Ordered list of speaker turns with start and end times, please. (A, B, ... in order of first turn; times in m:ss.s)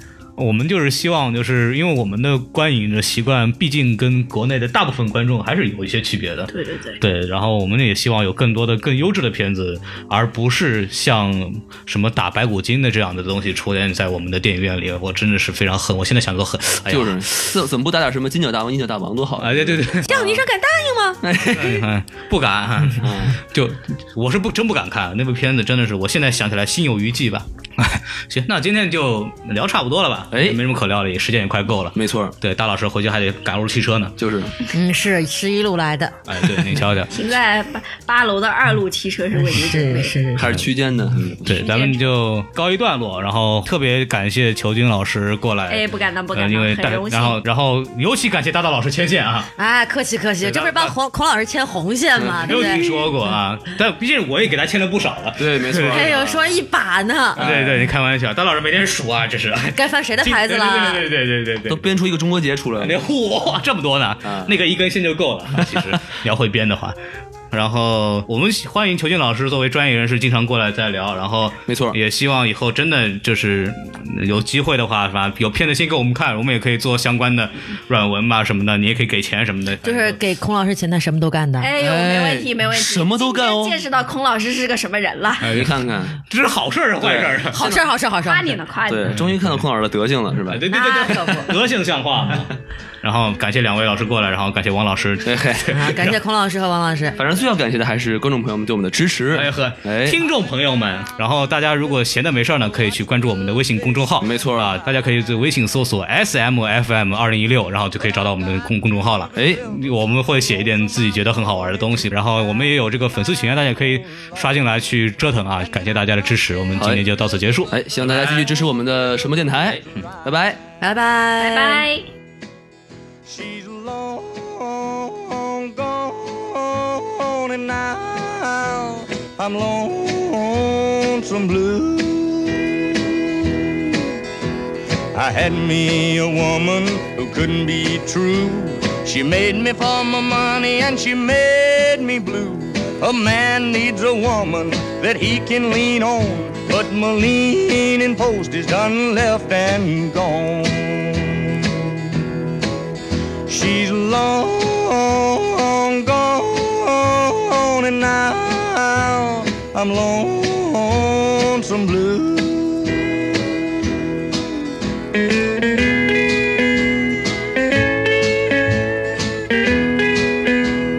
0:00.4-0:17.2 A
0:06.5-0:07.0 B
0:16.9-0:20.4 C
0:19.4-0:20.2 A
0:20.1-0:21.2 D
0:21.2-0:21.8 C
0:21.5-0:34.2 A
0:23.0-0:23.4 C
0:30.3-0:30.6 C
0:31.9-0:32.3 C
0:34.2-0:34.5 C
0:34.7-0:36.2 D
0:36.3-0:37.1 A
0:37.1-0:40.2 B
0:39.3-0:40.6 D
0:40.4-0:41.5 C
0:41.4-0:49.5 A
0:41.5-0:42.0 B
0:45.7-0:47.4 B
0:49.6-0:53.3 D
0:50.4-0:50.9 A
0:52.2-0:52.5 C
0:52.4-0:56.3 A
0:55.4-0:56.4 C
0:55.8-0:57.5 D
0:57.4-0:57.9 C
0:57.4-1:02.0 A
0:59.7-1:01.0 D
1:01.7-1:02.9 C
1:02.8-1:07.0 A
1:04.2-1:04.5 C
1:07.5-1:20.2 A
1:11.7-1:12.0 C
1:19.8-1:22.3 D
1:21.6-1:25.5 B
1:21.8-1:23.8 C
1:25.4-1:27.6 A
1:25.5-1:26.2 C
1:27.0-1:27.8 C
1:27.5-1:28.6 D
1:28.2-1:29.2 B
1:28.9-1:30.6 C
1:29.1-1:29.6 A
1:30.5-1:36.1 A
1:30.7-1:31.5 D
1:35.2-1:35.8 C
1:35.7-1:37.2 D
1:37.2-1:40.2 C
1:39.3-1:58.6 A
1:44.2-1:44.8 C
1:49.4-1:49.7 C
1:56.8-1:57.0 C
1:57.7-2:00.6 C
2:00.8-2:01.9 D
2:01.4-2:02.1 B
2:03.2-2:14.0 E
2:15.1-2:32.4 E
2:33.5-2:43.1 E